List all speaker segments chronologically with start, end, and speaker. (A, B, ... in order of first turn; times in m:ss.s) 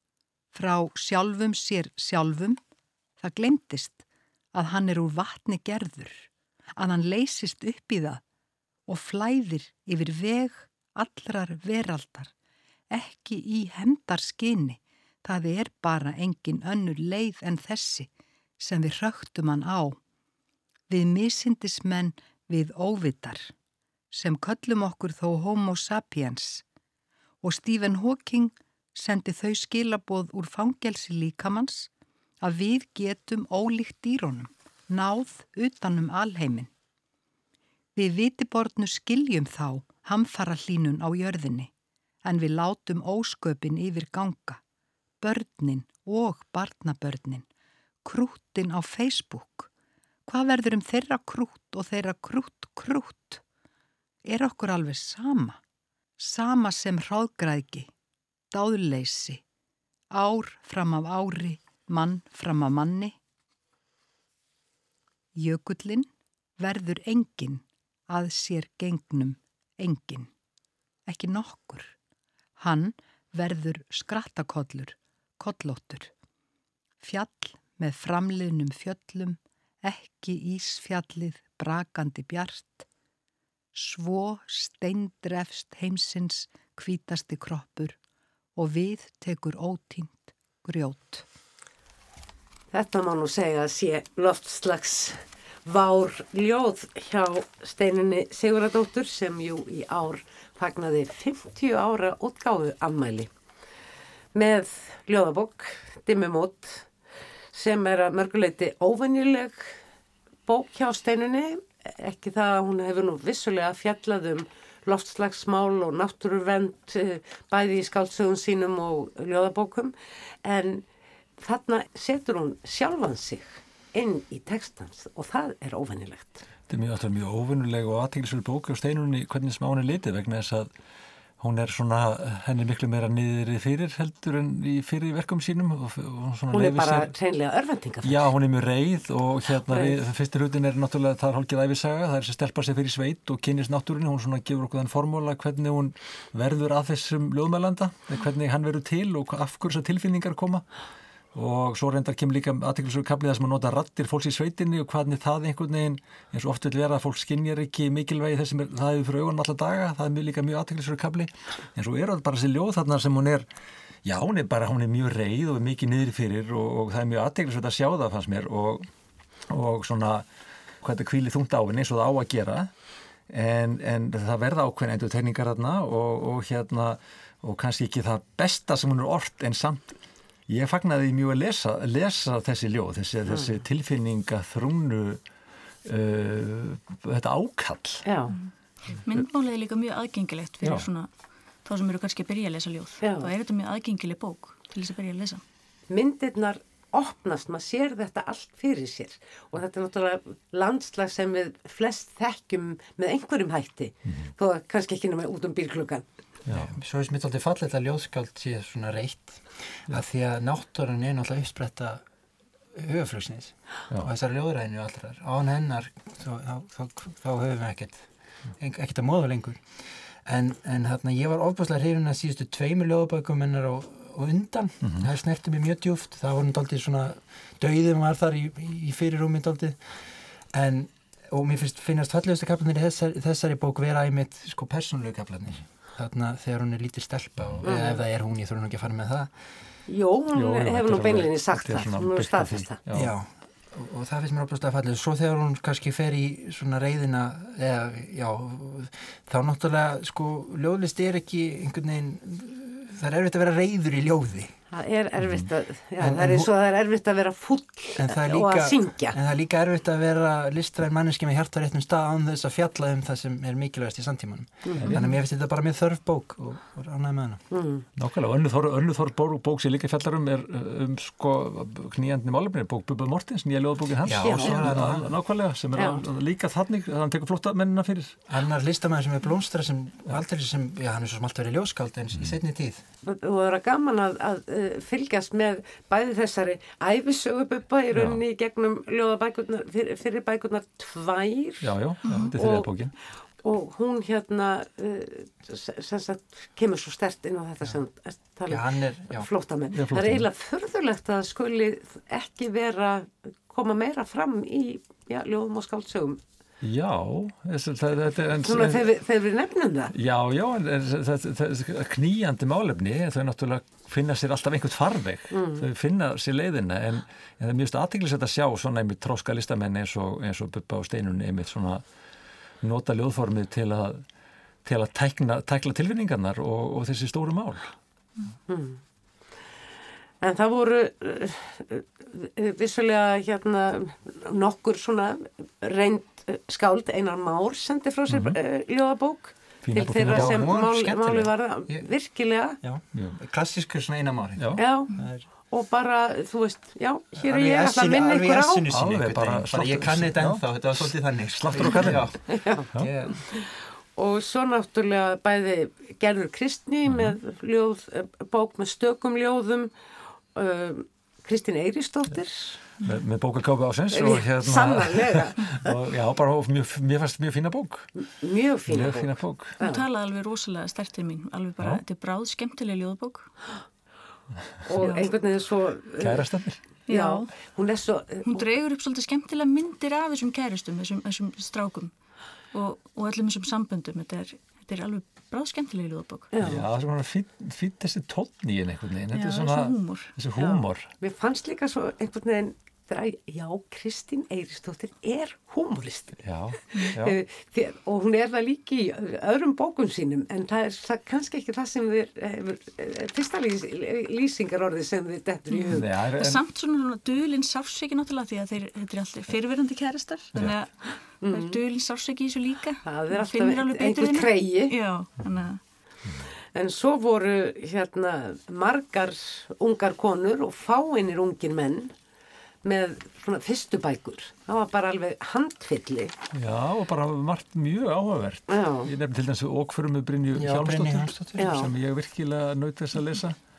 0:00.5-0:02.6 A
0:03.2-0:08.2 A
0:08.9-0:12.3 A
0:12.9-0:20.0 A
0:20.9-0:23.5 A
0:24.1-0:26.6 A
0:27.4-0:31.9 A
0:32.4-0:36.7 A
0:38.0-0:41.7 A
0:42.2-0:44.6 A
0:45.2-0:47.4 A
0:48.0-0:49.7 A
0:50.3-0:53.4 A
0:54.2-0:55.6 A
0:56.2-0:57.9 A
0:58.5-0:59.4 A
1:00.1-1:03.1 A
1:05.3-1:10.3 A
1:11.1-1:11.9 A
1:12.6-1:16.1 A
1:17.0-1:22.8 A
1:23.7-1:28.0 A
1:28.6-1:31.2 A
1:32.7-1:43.3 B
1:44.3-1:46.9 B
1:47.5-1:49.8 B
1:50.5-2:00.8 B
2:01.4-2:06.4 B
2:06.7-2:10.7 C
2:11.4-2:17.1 C
2:16.5-2:18.3 B
2:18.0-2:30.6 C
2:19.7-2:20.0 B
2:31.3-2:43.4 C
2:44.0-2:48.8 C
2:49.5-2:50.2 C
2:50.8-2:52.7 C
2:53.3-3:05.2 C
3:03.3-3:03.5 B
3:05.8-3:08.0 C
3:08.0-3:08.4 B
3:09.0-3:11.1 D
3:10.6-3:10.9 C
3:11.6-3:15.4 D
3:13.0-3:13.3 B
3:15.9-3:26.0 B
3:26.5-3:26.7 C
3:26.5-3:32.0 E
3:32.7-3:39.6 E
3:40.2-3:50.0 E
3:50.5-3:59.3 E
3:57.6-3:58.0 B
3:59.9-4:02.8 B
4:00.3-4:03.1 C
4:02.9-4:14.5 E
4:14.7-4:19.2 B
4:15.2-4:15.5 C
4:16.0-4:16.5 E
4:18.0-4:27.4 E
4:24.6-4:25.0 B
4:24.8-4:25.0 C
4:27.5-4:27.8 B
4:28.0-4:38.2 C
4:34.0-4:35.1 E
4:34.2-4:34.8 B
4:35.7-4:36.0 B
4:38.3-4:42.8 E
4:43.0-4:51.7 B
4:47.9-4:48.2 C
4:51.6-4:52.9 C
4:52.0-4:52.3 D
4:52.3-4:52.7 B
4:53.4-5:06.2 B
4:58.5-4:59.3 E
4:59.7-5:00.3 C
5:06.6-5:08.9 C
5:08.4-5:09.9 B
5:09.9-5:21.8 C
5:15.3-5:15.7 B
5:22.6-5:24.0 C
5:24.6-5:27.7 C
5:28.5-5:28.8 B
5:30.2-5:42.6 B
5:38.1-5:38.4 C
5:39.6-5:40.6 C
5:39.9-5:41.9 E
5:42.6-5:45.2 E
5:44.4-5:44.6 C
5:44.6-5:44.9 B
5:45.5-5:48.6 B
5:47.2-5:53.2 E
5:48.7-5:52.2 C
5:52.3-5:59.7 B
5:56.9-5:57.2 C
6:00.3-6:02.6 B
6:02.8-6:07.9 C
6:03.9-6:05.7 B
6:08.0-6:09.8 B
6:08.7-6:09.6 C
6:09.6-6:13.3 D
6:14.6-6:16.3 B
6:14.8-6:15.1 D
6:16.0-6:16.6 C
6:16.9-6:17.3 D
6:16.9-6:18.4 B
6:18.2-6:21.9 D
6:22.5-6:26.3 D
6:26.3-6:26.6 B
6:26.4-6:30.9 C
6:29.1-6:30.1 D
6:30.4-6:36.2 B
6:36.2-6:37.2 C
6:36.8-6:45.9 B
6:45.5-6:55.6 D
6:45.7-6:46.4 C
6:51.2-6:51.6 B
6:52.8-6:54.8 B
6:56.5-7:01.9 B
7:02.6-7:06.1 B
7:06.3-7:13.4 C
7:08.5-7:08.9 B
7:10.4-7:11.6 E
7:11.4-7:11.7 B